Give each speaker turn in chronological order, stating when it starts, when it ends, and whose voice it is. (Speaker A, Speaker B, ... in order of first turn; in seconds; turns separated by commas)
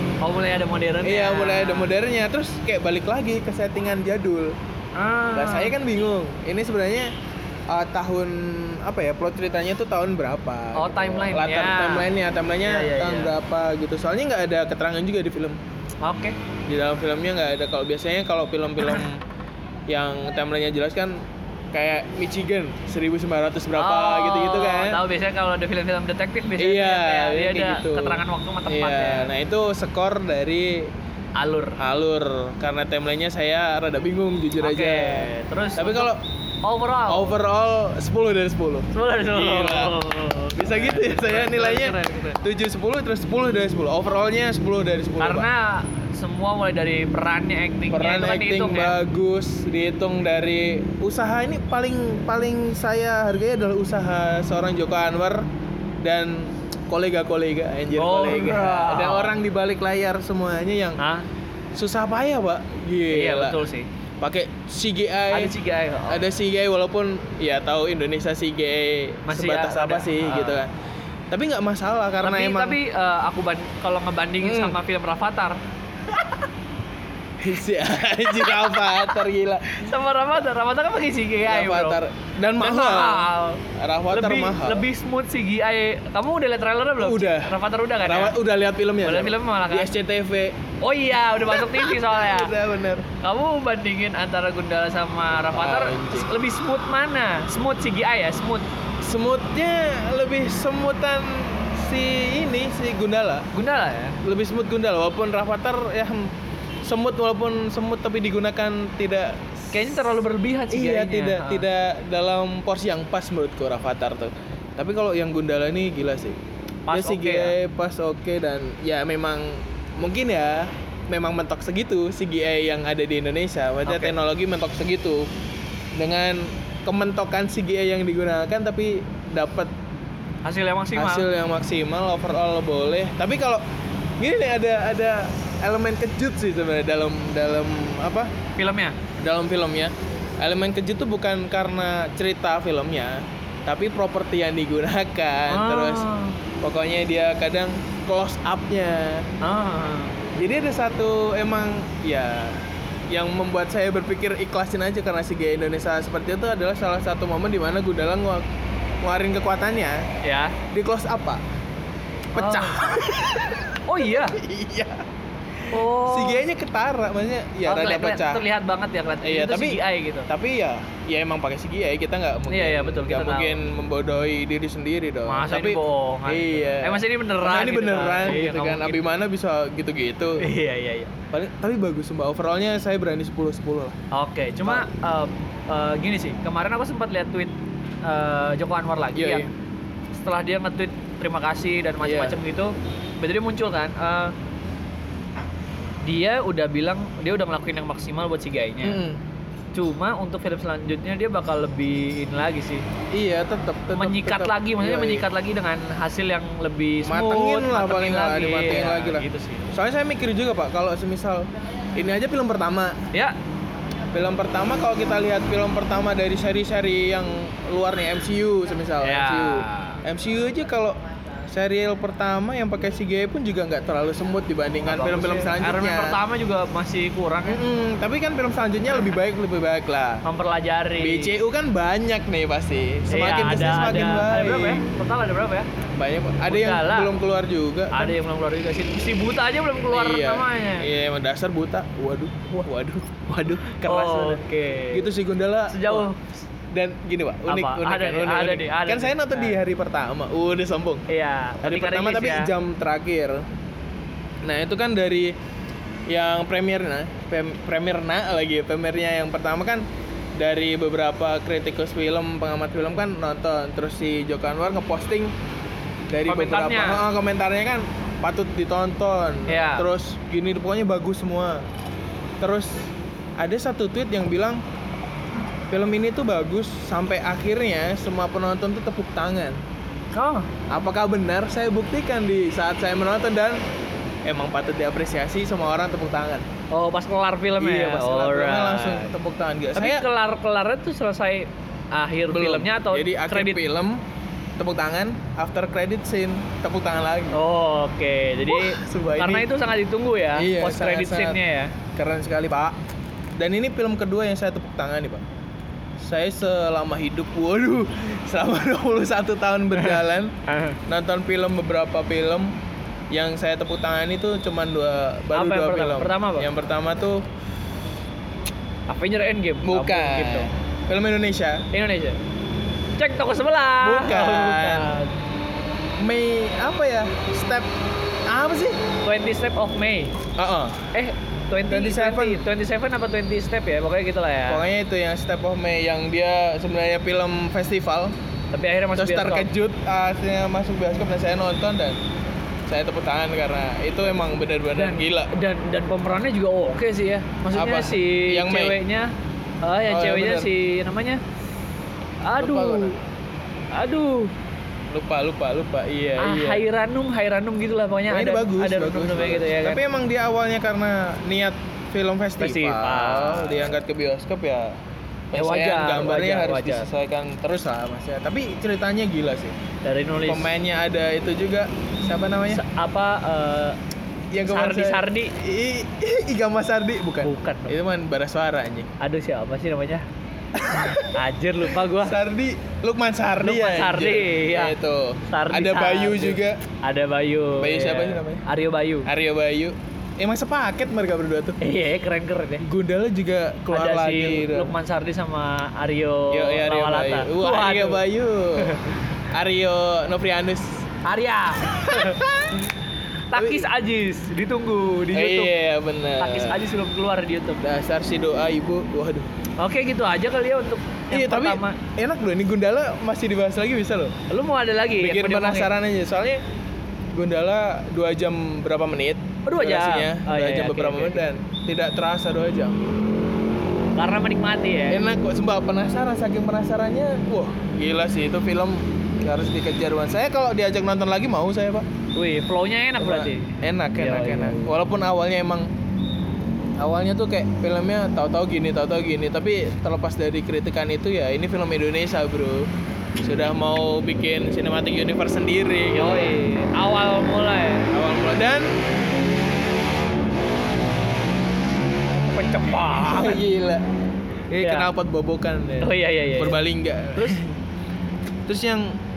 Speaker A: 0.2-1.9, Speaker B: 1.0-4.5, Speaker A: 5.0-5.8, Speaker B: 5.3-7.1, Speaker B: 7.7-15.6, Speaker A: 10.8-12.1, Speaker A: 12.6-13.3, Speaker A: 16.0-16.4, Speaker B: 16.7-19.2, Speaker B: 19.9-25.0, Speaker A: 23.8-29.3, Speaker B: 26.6-30.9, Speaker A: 31.4-31.8, Speaker B: 31.8-36.2, Speaker A: 34.6-36.1, Speaker A: 36.6-37.3, Speaker B: 37.1-40.0, Speaker A: 38.9-42.4, Speaker B: 40.5-45.5, Speaker A: 45.2-49.0, Speaker B: 47.9-55.5, Speaker B: 56.0-61.0, Speaker A: 57.9-59.4, Speaker A: 61.0-61.2, Speaker B: 61.8-63.6, Speaker A: 63.1-63.9, Speaker B: 64.2-65.5, Speaker A: 65.3-66.2, Speaker B: 66.1-70.7, Speaker A: 69.3-70.6, Speaker B: 71.3-72.8, Speaker A: 72.2-75.6, Speaker B: 74.4-74.8, Speaker B: 77.4-79.9, Speaker A: 78.3-79.2, Speaker A: 79.7-82.0, Speaker B: 81.5-84.8, Speaker A: 82.6-88.3, Speaker B: 87.0-90.5, Speaker A: 89.0-89.9, Speaker A: 90.8-92.5, Speaker B: 91.5-93.1, Speaker A: 93.2-98.7, Speaker B: 95.5-96.3, Speaker B: 99.0-103.5, Speaker A: 103.5-104.2, Speaker B: 104.2-106.3, Speaker B: 106.8-110.0, Speaker A: 109.7-111.7, Speaker B: 110.7-116.4, Speaker A: 116.9-117.5, Speaker B: 116.9-125.3, Speaker A: 123.8-124.1, Speaker B: 126.0-129.7, Speaker A: 130.4-131.2, Speaker B: 130.9-133.6, Speaker B: 134.2-138.3, Speaker A: 138.6-139.0, Speaker B: 139.2-146.1, Speaker A: 145.5-146.4, Speaker B: 146.6-149.3, Speaker A: 149.4-150.2, Speaker B: 150.3-158.4, Speaker B: 159.0-160.0, Speaker A: 160.2-160.6, Speaker B: 160.7-161.4, Speaker A: 162.3-162.8, Speaker B: 162.3-165.0, Speaker A: 163.9-164.4, Speaker B: 165.7-168.4, Speaker A: 165.7-166.5, Speaker A: 167.7-170.3, Speaker B: 169.2-180.5, Speaker A: 172.5-173.6, Speaker A: 175.3-179.0, Speaker A: 180.4-181.1, Speaker B: 181.3-184.0, Speaker A: 184.1-189.5, Speaker B: 189.1-189.5, Speaker A: 190.2-194.3, Speaker B: 192.0-192.4, Speaker A: 196.0-199.0, Speaker B: 198.8-199.2, Speaker A: 199.7-202.8, Speaker B: 203.1-205.2, Speaker A: 203.9-209.7, Speaker B: 207.0-213.0, Speaker B: 214.1-226.2, Speaker A: 219.0-220.0, Speaker A: 224.8-227.6, Speaker B: 227.5-230.2, Speaker A: 230.2-231.3, Speaker B: 231.0-234.8, Speaker A: 233.1-235.7, Speaker B: 235.9-238.2, Speaker A: 236.5-237.1, Speaker A: 237.9-240.9, Speaker B: 239.9-244.4, Speaker A: 243.8-245.0, Speaker B: 244.9-246.1, Speaker A: 245.7-246.3, Speaker B: 246.7-251.0, Speaker A: 247.5-249.6, Speaker A: 251.1-252.5, Speaker B: 251.6-253.4, Speaker B: 254.4-255.3, Speaker B: 256.1-259.8, Speaker B: 260.4-265.3, Speaker B: 266.1-271.6, Speaker A: 266.3-267.0, Speaker A: 269.5-269.9, Speaker B: 272.4-274.6, Speaker B: 275.7-279.6, Speaker A: 280.1-280.5, Speaker B: 280.7-283.6, Speaker B: 284.3-286.5, Speaker A: 286.7-289.1, Speaker B: 287.6-290.1, Speaker A: 289.8-293.6, Speaker B: 292.3-294.0, Speaker B: 294.6-297.4, Speaker A: 297.3-301.8, Speaker B: 298.5-299.5, Speaker B: 300.4-301.4, Speaker B: 301.9-302.8, Speaker B: 303.4-305.3, Speaker B: 306.0-312.5, Speaker A: 309.8-310.8, Speaker B: 313.1-317.2, Speaker A: 315.3-316.5, Speaker A: 318.9-320.5, Speaker B: 319.6-321.6, Speaker A: 321.7-322.2, Speaker A: 323.0-325.1, Speaker B: 323.8-324.9, Speaker B: 326.0-327.7, Speaker B: 328.3-328.8, Speaker A: 329.0-330.1, Speaker B: 330.4-330.9, Speaker A: 330.9-334.6, Speaker B: 331.7-332.4, Speaker B: 334.5-338.1, Speaker A: 338.5-339.5, Speaker B: 339.0-342.0, Speaker B: 342.7-345.3, Speaker A: 344.7-349.1, Speaker B: 347.5-348.8, Speaker A: 349.6-351.2, Speaker B: 349.9-350.5, Speaker A: 352.2-352.9, Speaker B: 352.4-353.0, Speaker A: 353.7-354.3, Speaker B: 354.9-356.6, Speaker A: 356.2-359.8, Speaker B: 358.1-364.8, Speaker A: 362.4-363.7, Speaker B: 365.3-369.6, Speaker A: 365.3-366.9, Speaker A: 369.8-370.5, Speaker B: 370.1-372.6, Speaker A: 372.5-373.8, Speaker B: 374.3-378.9, Speaker A: 374.4-375.3, Speaker A: 377.2-377.8, Speaker A: 379.0-380.0, Speaker B: 380.5-381.1, Speaker A: 380.9-382.2, Speaker B: 382.0-386.6, Speaker A: 383.4-384.7, Speaker A: 385.3-389.1, Speaker B: 387.6-388.4, Speaker B: 389.1-391.6, Speaker A: 391.6-392.6, Speaker B: 392.6-394.7, Speaker A: 393.7-398.0, Speaker B: 396.3-398.8, Speaker A: 398.6-399.0, Speaker B: 399.3-400.9, Speaker A: 401.0-402.2, Speaker B: 401.8-402.6, Speaker A: 403.3-405.5, Speaker B: 403.3-403.7, Speaker B: 405.1-406.6, Speaker A: 406.2-407.6, Speaker B: 407.6-409.3, Speaker A: 409.6-411.8, Speaker B: 411.1-414.2, Speaker A: 414.3-415.7, Speaker B: 415.0-416.4, Speaker B: 417.1-422.8, Speaker A: 419.4-421.2, Speaker A: 423.9-425.0, Speaker B: 424.9-431.9, Speaker A: 432.1-434.7, Speaker B: 433.0-435.7, Speaker B: 436.8-442.7, Speaker B: 443.2-446.3, Speaker A: 445.9-447.9, Speaker B: 447.9-448.7, Speaker A: 452.1-453.4, Speaker B: 452.9-453.8, Speaker B: 454.5-457.6, Speaker A: 454.6-454.9, Speaker A: 455.8-456.6, Speaker B: 458.5-458.9